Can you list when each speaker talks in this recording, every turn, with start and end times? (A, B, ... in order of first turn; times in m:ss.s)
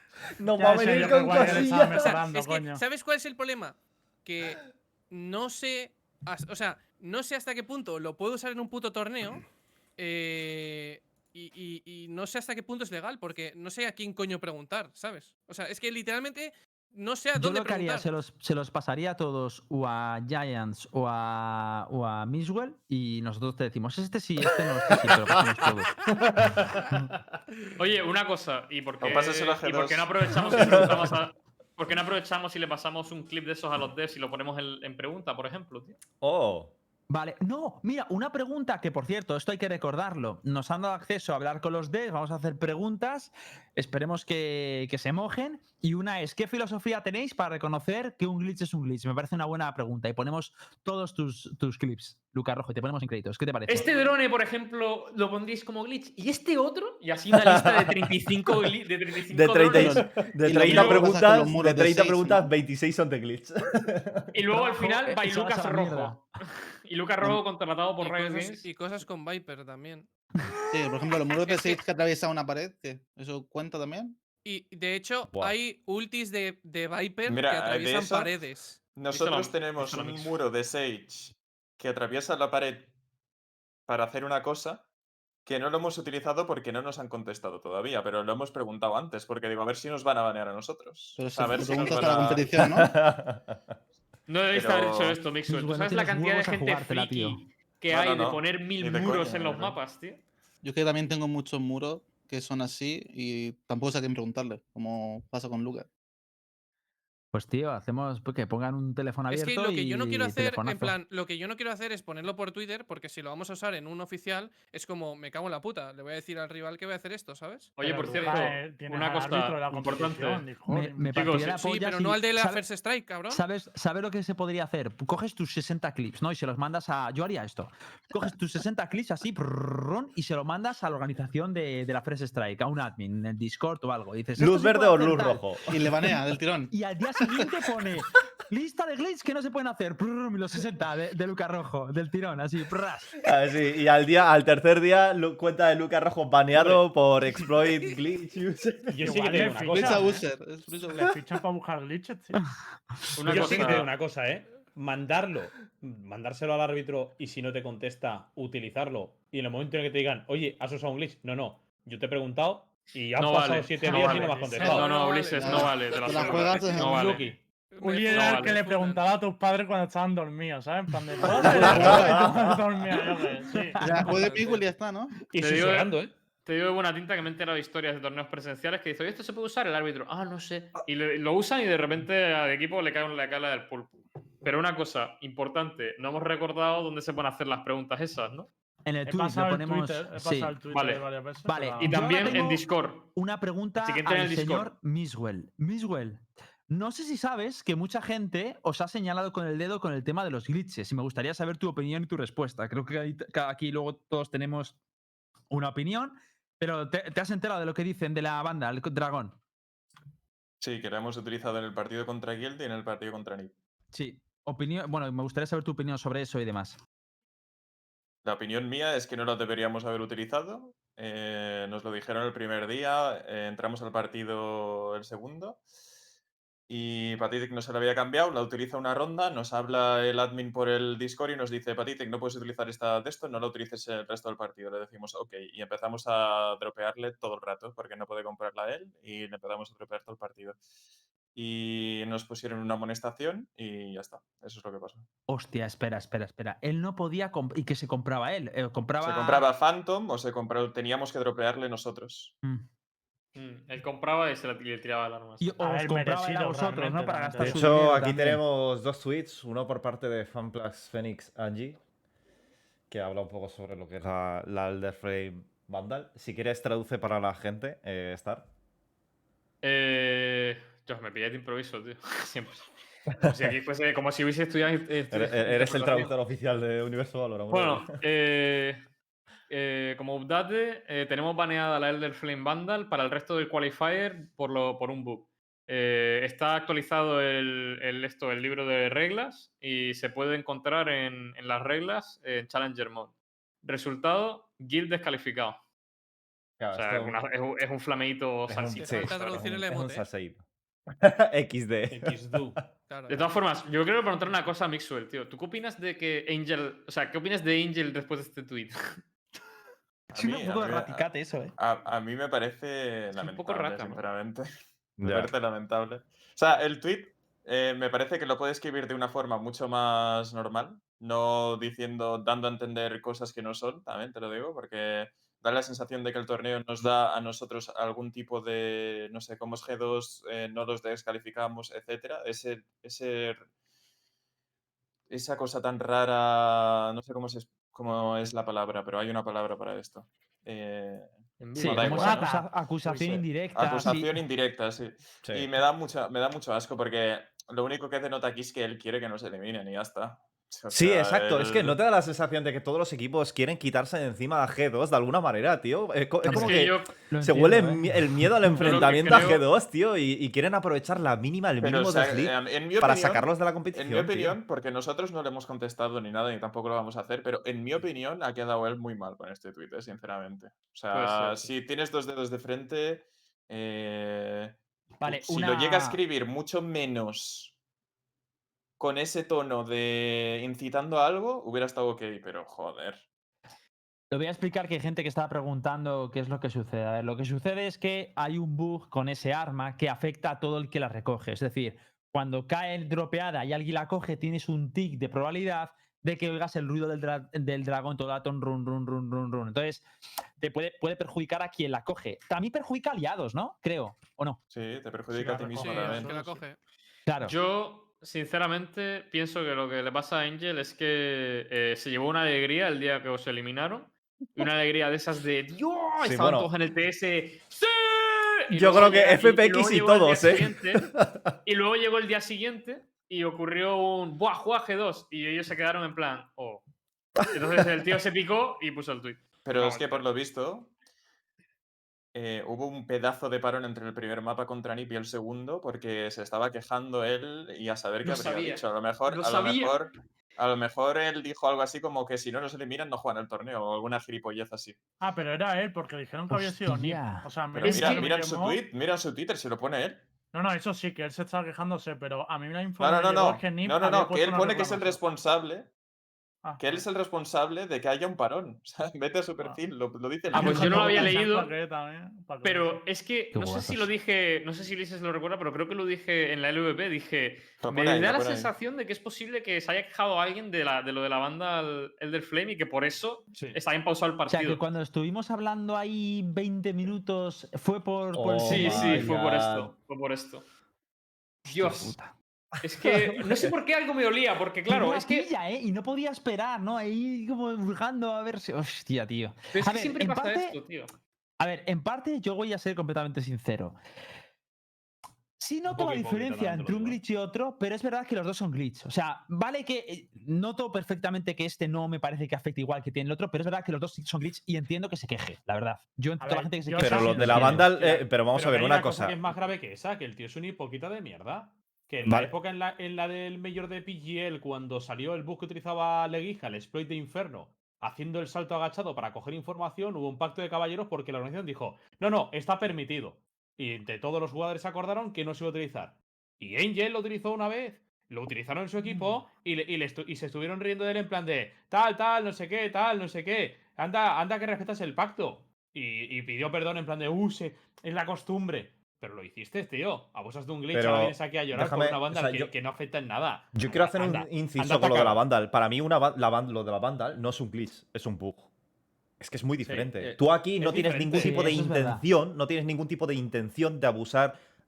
0:00.4-0:02.2 A
0:00.6-0:01.2 B
0:00.7-0:02.8 C
0:01.1-0:18.1 D
0:17.3-0:25.9 B
0:27.8-0:36.0 E
0:29.0-0:30.9 F
0:30.5-0:31.0 A
0:36.2-0:36.7 A
0:37.1-0:53.9 B
0:53.7-1:00.1 E
0:57.3-0:58.2 A
0:59.3-1:04.3 A
0:59.7-1:02.5 G
1:00.6-1:01.2 E
1:04.3-1:06.2 E
1:04.5-1:06.2 B
1:06.8-1:08.7 E
1:08.0-1:10.1 D
1:10.4-1:10.8 B
1:10.7-1:14.2 G
1:11.4-1:11.8 D
1:14.4-1:18.8 D
1:15.3-1:15.6 A
1:17.2-1:18.3 F
1:18.9-1:22.9 F
1:19.1-1:20.3 E
1:23.9-1:24.8 F
1:25.4-1:32.7 F
1:31.2-1:33.0 G
1:31.4-1:32.5 E
1:32.6-1:33.6 A
1:34.3-1:40.2 E
1:34.5-1:35.2 F
1:35.5-1:37.4 B
1:37.9-1:39.8 F
1:40.6-1:45.9 G
1:47.3-1:51.0 B
1:49.3-1:58.4 D
1:57.8-2:00.5 E
1:57.8-2:01.4 C
2:00.7-2:02.6 B
2:01.1-2:01.6 E
2:01.3-2:03.4 D
2:03.3-2:15.5 B
2:14.4-2:15.8 A
2:15.7-2:17.3 G
2:16.7-2:23.1 B
2:23.2-2:29.2 A
2:28.9-2:30.2 H
2:29.0-2:30.2 C
2:29.5-2:31.2 G
2:30.9-2:32.5 C
2:33.1-2:33.9 E
2:33.2-2:33.9 C
2:33.2-2:44.9 H
2:43.2-2:47.3 E
2:43.8-2:44.9 C
2:44.7-2:46.7 D
2:45.3-2:47.2 G
2:46.7-2:47.4 H
2:47.7-2:49.1 D
2:47.8-2:54.0 C
2:48.1-2:48.6 E
2:51.4-2:52.6 A
2:51.6-2:52.2 H
2:53.8-2:54.2 B
2:53.8-2:55.2 G
2:54.2-2:54.6 D
2:55.3-2:56.1 H
2:55.3-3:08.5 E
3:08.8-3:10.5 B
3:09.0-3:12.5 C
3:10.7-3:11.0 E
3:11.4-3:24.8 B
3:11.8-3:13.1 E
3:13.8-3:14.7 E
3:25.5-3:29.4 B
3:30.6-3:33.5 F
3:33.9-3:36.8 B
3:38.2-3:45.6 F
3:46.7-4:00.6 F
4:01.3-4:05.0 F
4:05.3-4:09.4 B
4:09.0-4:12.3 F
4:13.3-4:15.6 E
4:15.4-4:18.4 B
4:15.6-4:17.9 C
4:17.4-4:21.8 A
4:22.9-4:28.4 A
4:29.6-4:32.7 E
4:33.2-4:33.5 A
4:33.2-4:36.1 E
4:35.1-4:38.0 A
4:37.5-4:38.8 E
4:39.5-4:55.6 E
4:56.6-4:57.2 A
4:56.7-4:59.4 E
4:58.5-5:02.4 A
4:58.7-5:00.1 D
5:01.9-5:02.6 H
5:02.9-5:03.3 D
5:03.1-5:09.0 E
5:10.1-5:33.4 F
5:10.1-5:11.5 B
5:13.2-5:14.0 E
5:15.0-5:15.3 A
5:35.1-5:42.3 F
5:41.4-5:42.3 E
5:41.5-5:44.2 B
5:42.8-5:51.8 F
5:50.7-6:04.4 A
5:56.2-5:57.9 B
5:56.3-5:56.9 E
5:58.6-5:59.4 E
5:58.9-5:59.2 F
6:01.6-6:17.5 F
6:10.9-6:11.5 E
6:15.0-6:16.0 B
6:18.8-6:23.0 F
6:24.1-6:39.8 B
6:40.4-6:44.4 B
6:44.5-6:46.2 F
6:45.1-6:46.1 C
6:45.5-6:46.6 D
6:47.1-6:47.4 B
6:47.2-7:00.9 E
6:56.0-6:56.5 A
6:58.5-7:01.3 A
7:01.4-7:06.6 E
7:07.2-7:10.1 E
7:09.4-7:10.7 F
7:12.1-7:24.8 F
7:18.0-7:19.8 E
7:25.0-7:28.6 C
7:26.3-7:27.3 B
7:27.5-7:30.0 F
7:27.7-7:28.1 E
7:30.3-7:35.0 C
7:32.8-7:35.7 F
7:36.4-7:36.8 C
7:36.6-7:41.1 F
7:40.3-7:42.8 C
7:40.4-7:40.7 B
7:40.4-7:41.5 E
7:42.4-7:54.6 E
7:43.3-7:43.9 B
7:47.6-7:48.5 F
7:54.3-7:59.1 B
7:58.1-7:59.7 A
7:58.4-8:00.4 E
8:01.4-8:02.1 B
8:01.5-8:02.0 E
8:02.6-8:05.3 E
8:02.8-8:03.5 A
8:04.7-8:10.6 B
8:09.5-8:10.9 E
8:11.4-8:13.8 B
8:15.4-8:27.6 B
8:15.7-8:17.0 H
8:26.2-8:27.5 C
8:26.8-8:29.4 A
8:26.9-9:05.2 H
8:32.0-8:32.3 A
9:00.7-9:02.5 A
9:03.6-9:08.5 A
9:09.2-9:14.4 A
9:09.6-9:11.5 H
9:11.2-9:12.0 B